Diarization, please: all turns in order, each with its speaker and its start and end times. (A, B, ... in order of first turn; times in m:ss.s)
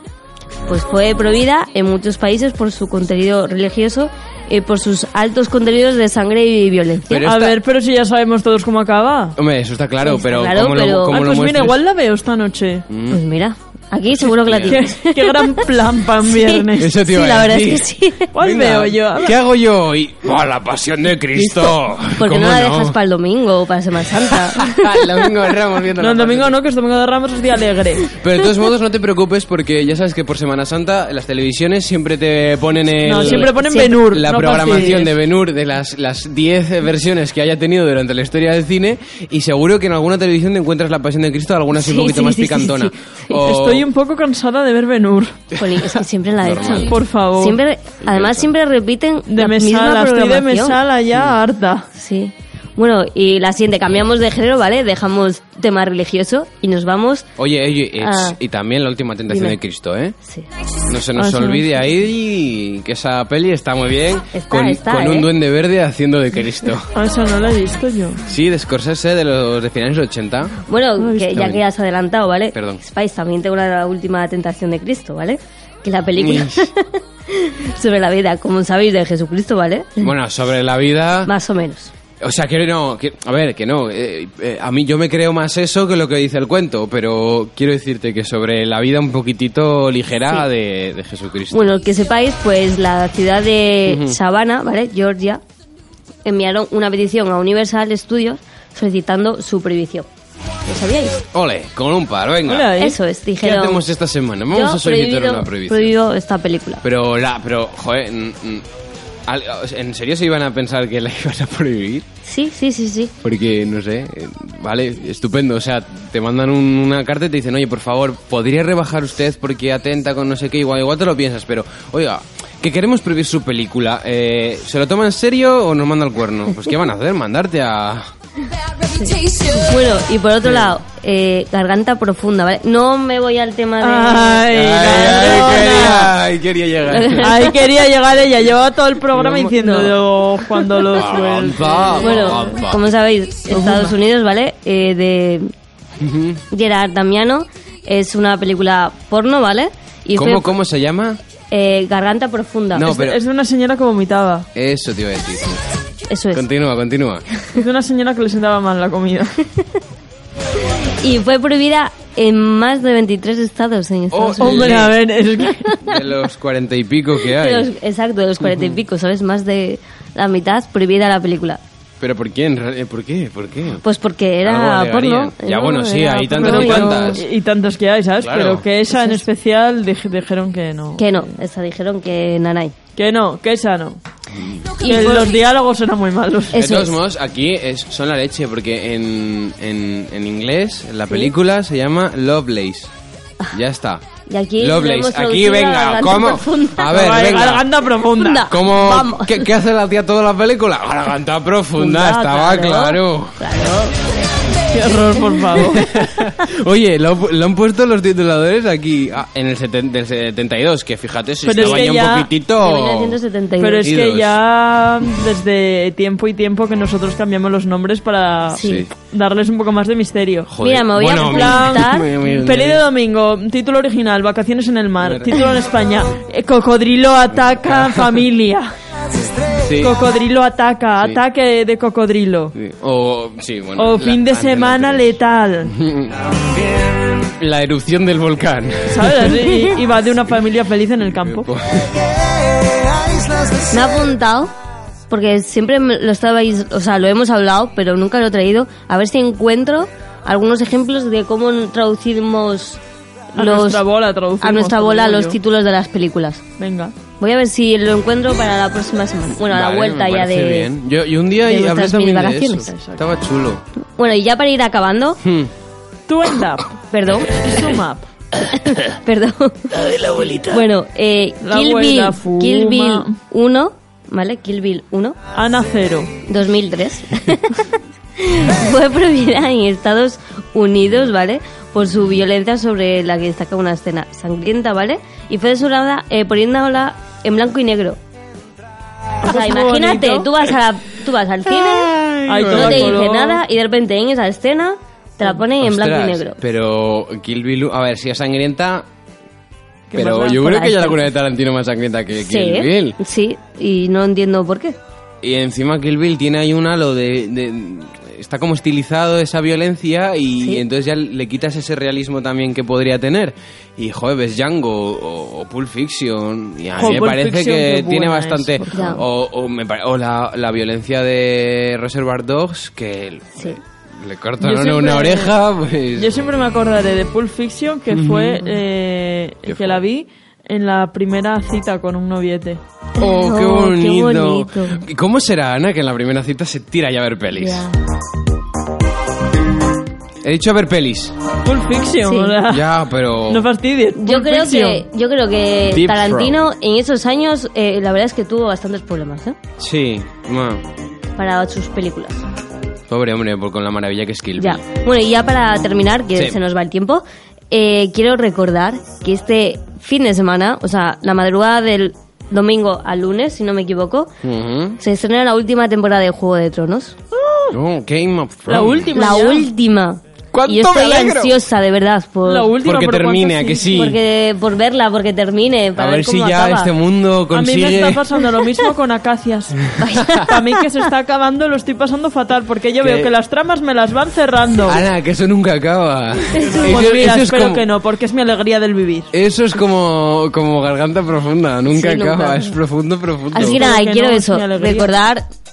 0:00.7-0:07.3 A
0:07.1-0:07.6 B
0:07.2-0:09.4 C
0:09.4-0:11.8 B
0:10.0-0:11.2 A
0:11.1-0:12.8 C
0:12.9-0:13.2 B
0:13.1-0:15.6 A
0:14.4-0:14.8 B
0:14.6-0:16.9 C
0:16.3-0:18.3 A
0:16.8-0:23.0 B
0:18.3-0:19.4 C
0:21.4-0:25.3 A
0:24.2-0:26.6 B
0:26.0-0:28.1 C
0:28.1-0:43.9 B
0:33.0-0:35.1 C
0:33.1-0:34.0 A
0:34.5-0:35.0 A
0:41.7-0:43.4 A
0:43.4-0:45.4 C
0:45.6-0:50.8 A
0:46.4-0:46.9 B
0:46.9-0:47.6 C
0:48.0-0:48.5 B
0:49.3-0:51.9 C
0:51.9-0:57.3 A
0:57.4-1:00.2 B
0:58.0-0:58.4 A
0:59.3-0:59.6 A
1:00.9-1:06.9 B
1:01.2-1:01.6 C
1:04.3-1:05.3 A
1:06.9-1:08.2 C
1:08.2-1:10.6 B
1:10.7-1:20.1 A
1:11.2-1:11.6 B
1:12.5-1:12.8 B
1:16.2-1:16.7 B
1:20.0-1:21.3 B
1:21.2-1:21.9 A
1:22.2-1:31.7 B
1:31.5-1:35.4 A
1:33.8-1:34.2 B
1:36.2-1:40.1 A
1:40.7-1:41.2 A
1:41.3-1:42.8 B
1:42.5-1:43.0 C
1:42.8-1:43.8 A
1:43.4-1:45.9 B
1:44.5-1:46.8 A
1:46.8-1:48.6 B
1:49.3-1:52.1 B
1:52.2-1:53.1 A
1:53.2-2:08.1 B
2:08.9-2:16.1 A
2:13.8-2:16.1 C
2:14.5-2:17.4 B
2:16.9-2:17.6 A
2:17.2-2:22.3 C
2:19.2-2:19.5 B
2:19.5-2:19.9 A
2:20.9-2:22.8 B
2:22.0-2:25.5 A
2:23.5-2:23.9 C
2:26.0-2:26.4 B
2:26.5-2:30.6 A
2:30.1-2:31.2 B
2:31.5-2:33.0 A
2:32.7-2:33.2 B
2:32.8-2:34.5 C
2:34.5-2:35.6 B
2:36.1-2:36.4 A
2:36.3-2:37.2 B
2:37.5-2:39.4 C
2:41.0-2:44.9 A
2:44.1-2:45.0 B
2:44.4-2:45.7 C
2:45.6-2:45.9 A
2:45.8-2:47.7 B
2:47.2-2:51.6 A
2:48.4-2:48.7 B
2:52.0-2:53.8 B
2:53.8-2:57.2 A
2:54.4-2:57.2 B
2:56.2-3:01.3 C
2:58.2-2:58.6 B
3:01.0-3:02.7 A
3:03.0-3:04.0 C
3:04.8-3:05.4 A
3:04.8-3:06.6 C
3:06.5-3:07.0 A
3:06.5-3:12.9 B
3:13.5-3:14.0 B
3:14.3-3:17.4 A
3:14.6-3:17.7 B
3:16.9-3:18.5 C
3:18.2-3:19.5 A
3:18.5-3:23.4 B
3:21.8-3:23.9 A
3:24.7-3:25.8 C
3:25.7-3:33.2 B
3:31.4-3:32.3 C
3:31.6-3:31.9 A
3:32.6-3:33.9 A
3:33.6-3:40.5 C
3:33.8-3:34.4 B
3:38.5-3:38.8 A
3:38.6-3:38.9 B
3:40.5-3:42.8 B
3:40.6-3:42.1 A
3:41.1-3:48.7 C
3:45.0-3:45.3 B
3:47.6-3:48.1 B
3:49.1-3:50.0 B
3:49.8-3:52.5 C
3:52.5-3:59.3 B
3:53.8-3:55.7 C
3:58.9-4:01.5 C
4:01.2-4:02.0 B
4:03.7-4:04.5 A
4:05.1-4:12.8 A
4:13.4-4:13.8 A
4:13.4-4:15.4 C
4:14.4-4:16.4 A
4:16.6-4:16.9 C
4:17.2-4:20.7 A
4:19.5-4:23.6 B
4:21.4-4:22.7 A
4:22.7-4:23.0 C
4:23.8-4:25.2 A
4:25.2-4:25.5 B
4:26.1-4:26.8 C
4:26.9-4:27.4 A
4:27.3-4:28.1 C
4:28.5-4:29.8 A
4:29.7-4:30.6 B
4:30.5-4:35.2 A
4:31.4-4:33.2 C
4:35.3-4:36.1 C
4:36.2-4:48.0 A
4:49.2-4:50.3 C
4:49.2-4:51.9 A
4:51.5-4:53.0 B
4:52.3-4:53.4 C
4:52.5-4:56.4 A
4:55.6-4:58.9 B
4:59.9-5:03.0 B
5:00.0-5:01.0 A
5:02.2-5:04.8 A
5:05.2-5:26.2 B
5:16.7-5:19.0 C
5:18.7-5:19.0 A
5:24.4-5:25.3 C
5:25.9-5:32.6 C
5:27.9-5:28.4 B
5:29.4-5:29.8 B
5:33.0-5:34.8 A
5:33.0-5:37.7 B
5:37.3-5:37.8 A
5:40.2-5:41.2 B
5:41.4-5:42.7 C
5:42.0-5:42.4 A
5:42.5-5:43.5 B
5:43.3-5:44.8 C
5:44.0-5:49.4 A
5:45.7-5:46.4 B
5:49.6-5:50.6 B
5:51.2-5:52.2 A
5:52.9-5:54.6 B
5:54.4-6:04.1 A
6:04.2-6:04.8 B
6:04.8-6:07.0 A
6:07.2-6:07.5 C
6:07.5-6:08.9 B
6:08.5-6:09.5 C
6:08.9-6:12.5 A
6:10.3-6:11.4 B
6:12.2-6:13.8 C
6:12.6-6:14.0 B
6:13.7-6:16.7 A
6:15.8-6:18.0 B
6:17.3-6:24.8 C
6:19.8-6:20.6 A
6:22.8-6:23.1 B
6:24.6-6:27.6 B
6:26.4-6:26.7 A
6:26.6-6:29.1 C
6:29.1-6:33.6 B
6:31.7-6:32.6 A
6:33.3-6:35.2 A
6:33.3-6:34.9 C